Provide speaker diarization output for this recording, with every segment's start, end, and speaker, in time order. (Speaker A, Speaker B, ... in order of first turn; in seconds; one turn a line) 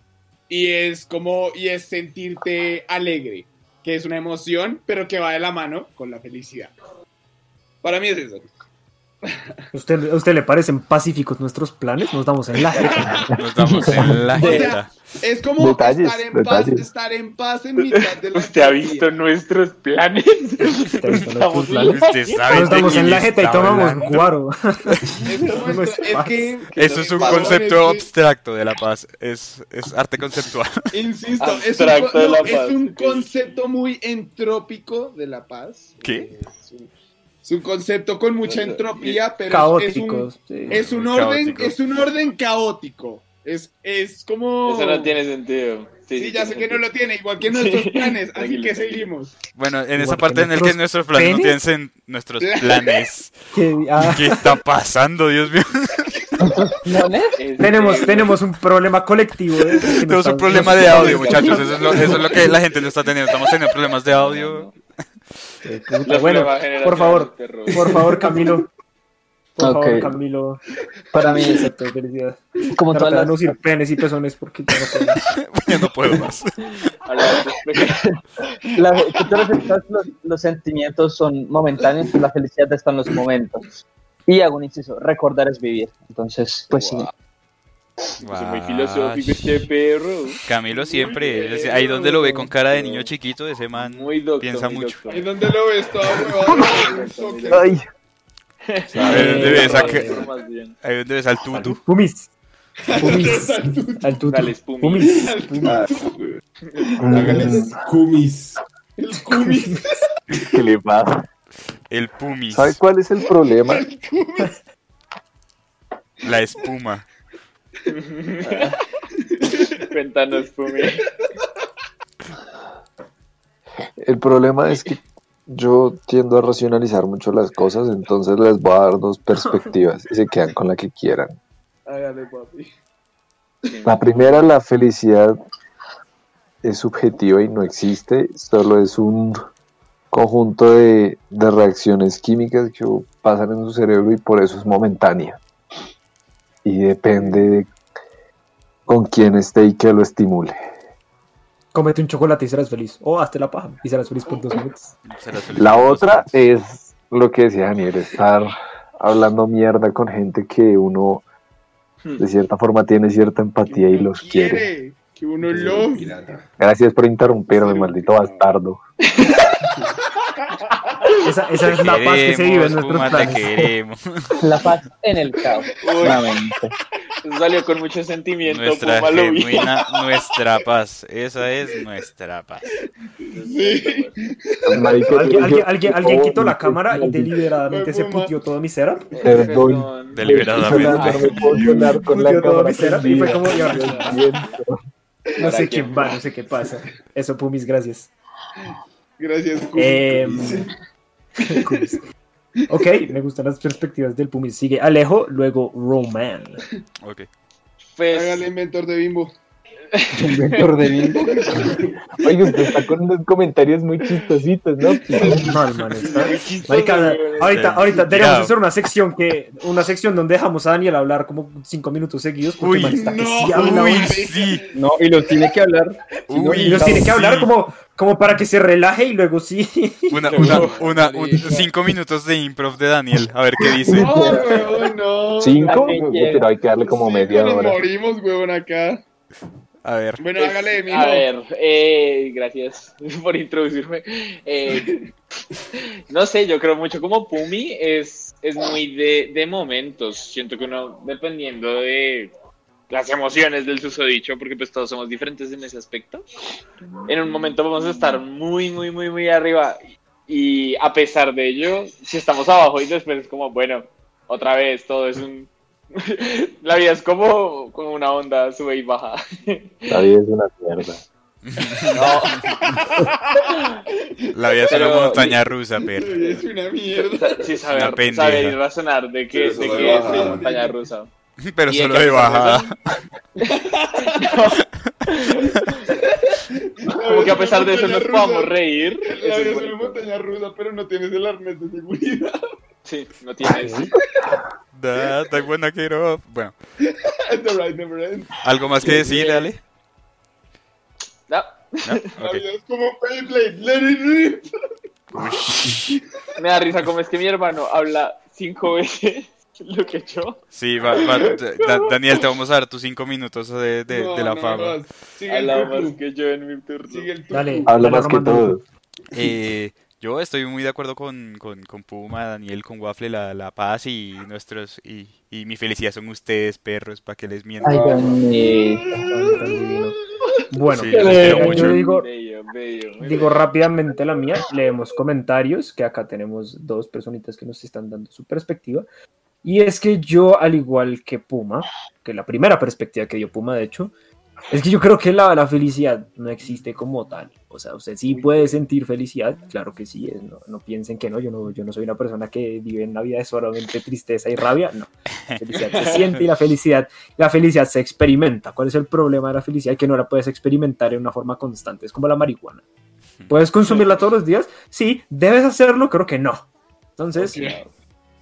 Speaker A: 0.5-6.7
Speaker A: 7.8-8.5
Speaker B: 9.7-13.3
Speaker C: 13.3-14.9
Speaker D: 13.6-14.7
Speaker A: 14.4-19.1
Speaker E: 15.6-16.9
Speaker F: 17.8-23.0
Speaker B: 21.0-26.6
Speaker C: 21.8-24.3
Speaker A: 25.2-28.1
Speaker C: 26.8-30.9
Speaker F: 27.1-27.7
Speaker A: 30.9-36.9
Speaker F: 31.4-33.6
Speaker C: 36.0-36.3
Speaker A: 37.4-45.1
Speaker F: 38.4-39.3
Speaker B: 39.5-40.8
Speaker C: 40.7-41.8
Speaker F: 44.6-46.8
Speaker A: 46.1-49.3
Speaker F: 47.4-49.1
Speaker C: 49.5-53.3
Speaker B: 49.9-51.6
Speaker A: 52.4-53.0
Speaker B: 53.5-54.6
Speaker C: 54.0-56.1
Speaker D: 56.4-57.3
Speaker F: 57.4-58.4
Speaker B: 57.6-61.6
Speaker C: 59.8-64.7
Speaker F: 60.5-62.5
Speaker A: 61.0-62.2
Speaker F: 64.1-64.7
Speaker B: 65.6-68.7
Speaker F: 66.0-68.2
Speaker B: 69.6-70.6
Speaker D: 69.6-70.1
Speaker D: 71.1-71.7
Speaker B: 71.2-75.2
Speaker D: 72.7-73.5
Speaker C: 75.4-76.5
Speaker F: 77.0-78.0
Speaker D: 78.7-83.7
Speaker D: 84.3-87.1
Speaker F: 86.7-87.1
Speaker C: 88.2-89.5
Speaker F: 88.3-90.4
Speaker C: 90.5-95.1
Speaker A: 90.8-92.4
Speaker F: 91.1-91.7
Speaker F: 92.2-93.1
Speaker F: 93.7-95.3
Speaker A: 95.1-97.8
Speaker F: 96.1-97.7
Speaker E: 97.5-97.8
Speaker F: 98.7-100.8
Speaker E: 98.9-99.2
Speaker C: 99.0-100.2
Speaker B: 99.0-100.2
Speaker C: 100.8-101.8
Speaker B: 101.5-102.3
Speaker A: 102.8-104.1
Speaker B: 102.9-105.8
Speaker F: 104.2-105.2
Speaker A: 105.1-107.7
Speaker G: 105.6-106.1
Speaker E: 107.0-107.8
Speaker G: 107.1-108.6
Speaker A: 109.0-110.1
Speaker E: 110.4-111.2
Speaker C: 111.9-112.8
Speaker E: 112.5-113.8
Speaker A: 113.4-114.5
Speaker C: 116.2-117.1
Speaker F: 117.9-118.8
Speaker A: 119.1-119.8
Speaker F: 119.9-121.0
Speaker A: 121.2-121.5
Speaker E: 124.0-131.3
Speaker B: 129.4-129.7
Speaker A: 131.8-132.7
Speaker F: 133.7-134.4
Speaker E: 133.8-135.4
Speaker E: 136.6-139.4
Speaker E: 140.1-145.4
Speaker E: 146.6-147.7
Speaker E: 148.8-150.6
Speaker B: 151.7-154.9
Speaker A: 154.3-154.6
Speaker C: 155.0-156.3
Speaker E: 155.5-161.2
Speaker E: 162.2-164.7
Speaker A: 163.6-166.1
Speaker G: 165.5-166.5
Speaker E: 166.6-168.8
Speaker A: 167.5-168.5
Speaker A: 170.4-171.0
Speaker B: 171.2-173.7
Speaker C: 171.6-174.4
Speaker D: 174.4-176.7
Speaker A: 175.8-176.2
Speaker F: 175.8-176.3
Speaker F: 177.2-179.7
Speaker C: 178.4-182.7
Speaker F: 183.3-184.2
Speaker A: 183.3-185.3
Speaker E: 184.7-187.3
Speaker B: 185.1-189.2
Speaker A: 187.6-188.3
Speaker F: 189.1-191.8
Speaker E: 189.2-194.8
Speaker C: 190.1-191.4
Speaker B: 190.6-194.2
Speaker A: 191.3-191.8
Speaker F: 193.3-194.3
Speaker B: 195.4-198.1
Speaker F: 195.4-196.1
Speaker A: 199.2-200.7
Speaker B: 199.8-200.7
Speaker B: 201.4-202.0
Speaker B: 202.7-206.6
Speaker C: 207.0-207.3
Speaker F: 207.9-208.5
Speaker A: 208.1-209.3
Speaker F: 209.9-210.9
Speaker H: 210.1-211.7
Speaker A: 211.3-211.9
Speaker E: 211.7-215.4
Speaker A: 215.1-216.3
Speaker B: 215.2-224.2
Speaker F: 216.0-217.9
Speaker C: 217.4-218.5
Speaker C: 222.6-223.0
Speaker A: 222.9-224.7
Speaker C: 223.5-224.6
Speaker H: 224.7-227.1
Speaker C: 226.3-227.5
Speaker B: 226.6-230.5
Speaker C: 230.1-234.3
Speaker F: 230.2-231.6
Speaker A: 230.3-231.6
Speaker A: 233.9-235.9
Speaker D: 233.9-234.4
Speaker H: 234.0-234.4
Speaker E: 235.4-237.8
Speaker D: 235.6-236.4
Speaker A: 236.8-239.0
Speaker C: 239.8-240.2
Speaker A: 240.2-241.3
Speaker F: 240.3-244.9
Speaker A: 244.7-245.1
Speaker F: 246.1-252.3
Speaker F: 252.9-256.2
Speaker F: 257.1-270.0
Speaker E: 269.9-271.0
Speaker C: 271.4-272.8
Speaker F: 271.9-272.6
Speaker A: 272.5-274.3
Speaker C: 274.3-276.4
Speaker F: 274.7-275.5
Speaker A: 275.9-277.6
Speaker F: 276.9-281.1
Speaker C: 277.7-278.6
Speaker G: 279.3-280.5
Speaker A: 279.6-280.8
Speaker C: 281.4-282.7
Speaker F: 281.7-282.7
Speaker A: 283.4-284.5
Speaker F: 284.1-285.9
Speaker A: 285.9-292.4
Speaker F: 287.0-290.2
Speaker F: 292.8-293.9
Speaker B: 293.4-293.9
Speaker C: 294.7-296.5
Speaker A: 296.8-298.4
Speaker C: 298.4-299.6
Speaker F: 298.8-299.5
Speaker F: 301.3-302.1
Speaker C: 301.8-302.4
Speaker A: 302.2-304.4
Speaker C: 305.1-305.9
Speaker F: 306.4-310.4
Speaker C: 310.5-314.8
Speaker A: 313.9-316.0
Speaker F: 315.3-317.1
Speaker A: 316.9-317.8
Speaker B: 317.3-318.5
Speaker E: 317.6-318.6
Speaker C: 319.1-328.2
Speaker D: 327.6-329.0
Speaker A: 328.4-329.8
Speaker B: 329.0-329.9
Speaker B: 330.5-332.1
Speaker C: 330.7-331.8
Speaker F: 330.9-333.4
Speaker D: 330.9-331.4
Speaker B: 333.0-338.9
Speaker B: 339.4-343.9
Speaker B: 344.5-362.6
Speaker A: 348.1-348.5
Speaker F: 355.8-356.1
Speaker B: 363.3-367.5
Speaker A: 367.1-367.6